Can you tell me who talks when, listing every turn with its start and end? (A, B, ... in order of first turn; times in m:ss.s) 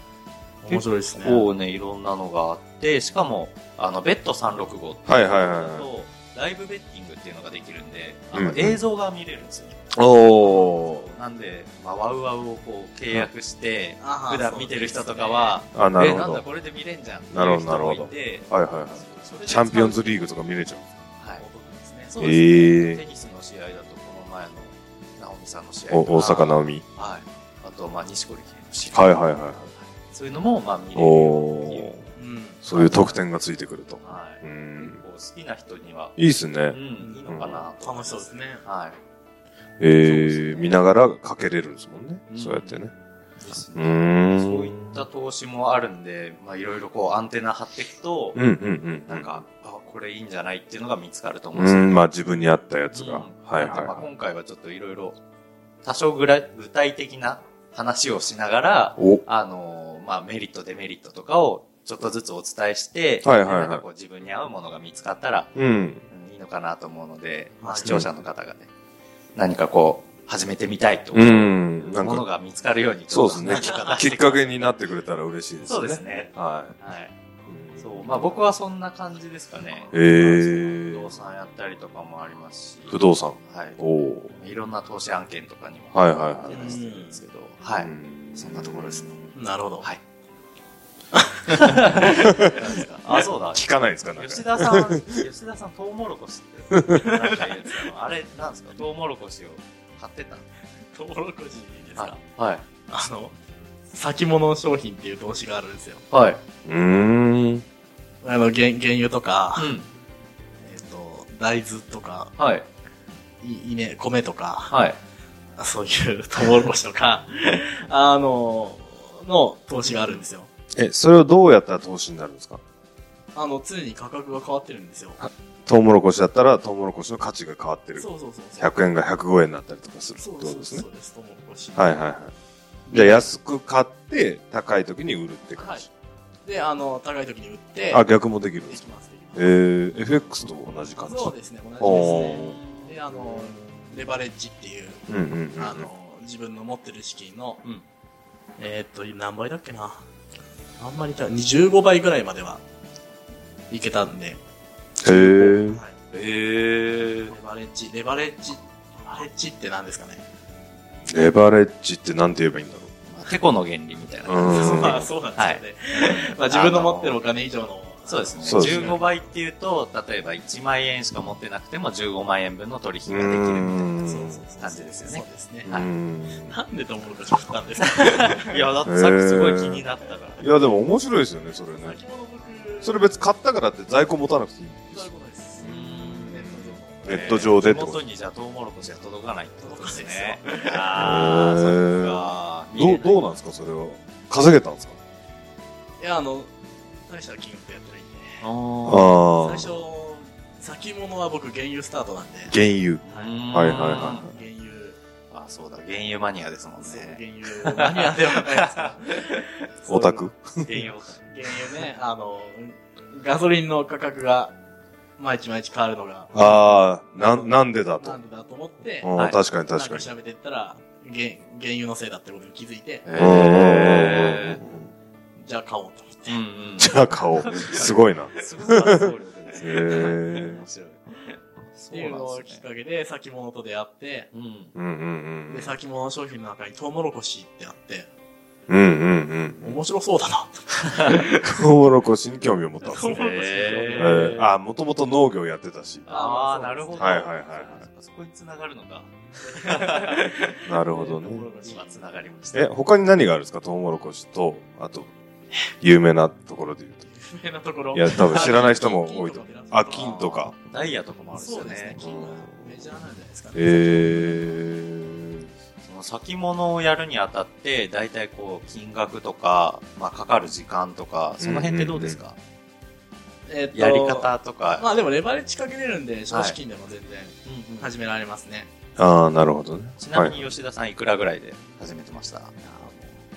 0:00.6-0:01.5 A
0:00.6-0:20.0 B
0:05.0-0:05.9 C
0:08.3-0:08.8 C
0:09.9-0:11.0 C
0:14.0-0:15.6 A
0:15.7-0:16.4 C
0:17.3-0:20.8 C
0:19.3-0:22.2 A
0:21.2-0:21.4 B
0:22.0-0:29.2 B
0:22.2-0:23.0 C
0:25.9-0:26.8 C
0:28.9-0:29.7 C
0:29.8-0:32.0 B
0:30.9-0:32.1 C
0:32.2-0:32.6 A
0:32.6-0:35.0 C
0:32.7-0:33.2 B
0:34.0-0:39.0 B
0:36.2-0:37.6 C
0:37.0-0:38.6 A
0:39.8-0:42.9 C
0:40.0-0:40.8 B
0:42.3-0:42.8 B
0:43.4-0:48.4 B
0:43.7-0:45.0 C
0:48.3-0:49.4 C
0:49.1-0:52.0 B
0:51.5-0:54.0 C
0:52.9-0:55.2 B
0:55.8-1:05.6 B
0:59.0-0:59.2 C
1:03.2-1:03.8 C
1:05.6-1:06.0 C
1:06.1-1:08.7 B
1:07.6-1:08.1 A
1:07.8-1:08.1 C
1:09.4-1:14.7 B
1:11.1-1:12.3 C
1:13.1-1:16.8 C
1:15.6-1:17.1 B
1:17.5-1:18.4 C
1:17.8-1:23.8 B
1:19.9-1:21.1 C
1:22.9-1:24.4 C
1:24.3-1:29.2 B
1:25.9-1:26.9 C
1:26.5-1:27.2 A
1:27.8-1:29.3 C
1:29.3-1:29.9 A
1:31.1-1:32.8 A
1:31.5-1:33.6 B
1:32.0-1:32.5 C
1:33.2-1:35.2 C
1:34.2-1:40.4 B
1:36.7-1:37.2 C
1:37.0-1:37.2 A
1:40.9-1:42.2 A
1:42.0-1:42.6 B
1:42.9-1:43.3 A
1:43.9-1:46.0 A
1:46.1-1:46.4 B
1:46.6-1:47.6 C
1:48.2-1:49.7 A
1:49.5-1:49.9 B
1:50.6-1:52.3 A
1:52.4-1:52.6 B
1:53.4-1:54.8 A
1:54.7-1:55.0 B
1:55.6-2:00.5 A
1:59.8-2:00.2 B
2:00.7-2:02.6 C
2:03.3-2:05.2 A
2:05.2-2:10.8 C
2:08.0-2:08.8 A
2:10.2-2:12.0 A
2:11.8-2:12.3 C
2:12.9-2:13.3 A
2:12.9-2:15.9 C
2:15.6-2:15.9 A
2:16.4-2:18.1 A
2:17.9-2:22.6 C
2:18.6-2:19.6 A
2:21.0-2:25.0 A
2:21.8-2:23.0 B
2:23.1-2:23.6 C
2:25.1-2:25.9 C
2:25.6-2:27.6 A
2:28.6-2:30.0 A
2:30.8-2:32.6 A
2:33.7-2:34.4 A
2:35.0-2:35.8 C
2:35.0-2:35.9 A
2:36.1-2:37.3 B
2:37.3-2:40.2 A
2:41.1-2:42.9 C
2:43.1-2:47.2 B
2:44.2-2:45.1 C
2:44.4-2:49.2 A
2:48.0-2:55.9 B
2:48.4-2:49.0 C
2:53.1-2:54.4 C
2:54.0-2:58.6 A
2:55.7-2:56.6 C
2:57.9-3:00.4 B
2:58.8-2:59.8 C
3:00.4-3:02.0 C
3:01.8-3:03.2 A
3:02.8-3:08.0 C
3:04.9-3:07.5 A
3:05.6-3:13.3 B
3:09.6-3:11.0 A
3:10.9-3:15.0 C
3:16.0-3:16.5 A
3:17.0-3:18.4 A
3:18.4-3:19.2 B
3:18.8-3:19.7 C
3:19.3-3:22.6 A
3:22.5-3:24.3 C
3:23.0-3:24.3 B
3:23.1-3:25.0 A
3:25.3-3:29.4 B
3:26.8-3:30.3 A
3:29.9-3:30.6 C
3:30.6-3:31.5 B
3:31.2-3:34.5 A
3:35.2-3:39.1 A
3:36.3-3:38.2 C
3:39.0-3:40.1 C
3:39.7-3:43.1 A
3:43.0-3:44.6 B
3:43.1-3:44.9 C
3:45.4-3:46.4 A
3:46.3-3:51.2 B
3:46.8-3:50.6 C
3:51.7-3:52.6 B
3:51.9-3:54.3 A
3:54.3-3:54.7 B
3:54.7-3:55.8 C
3:55.5-3:58.1 A
3:58.7-3:59.8 C
3:59.6-4:01.6 A
4:01.4-4:06.1 C
4:02.8-4:04.4 A
4:03.1-4:04.5 B
4:06.1-4:07.3 A
4:06.1-4:10.3 B
4:07.0-4:07.9 C
4:09.4-4:12.1 A
4:10.6-4:11.5 C
4:11.6-4:12.7 B
4:12.5-4:15.1 C
4:15.6-4:17.1 C
4:17.1-4:20.5 A
4:17.9-4:20.5 C
4:20.6-4:22.0 B
4:21.3-4:24.5 A
4:22.0-4:22.8 C
4:23.5-4:25.5 C
4:25.8-4:32.4 B
4:31.4-4:32.2 C
4:33.4-4:38.7 A
4:33.7-4:34.9 B
4:36.3-4:36.6 B
4:37.4-4:37.9 B
4:39.0-4:40.5 C
4:40.0-4:42.5 B
4:42.6-4:43.2 A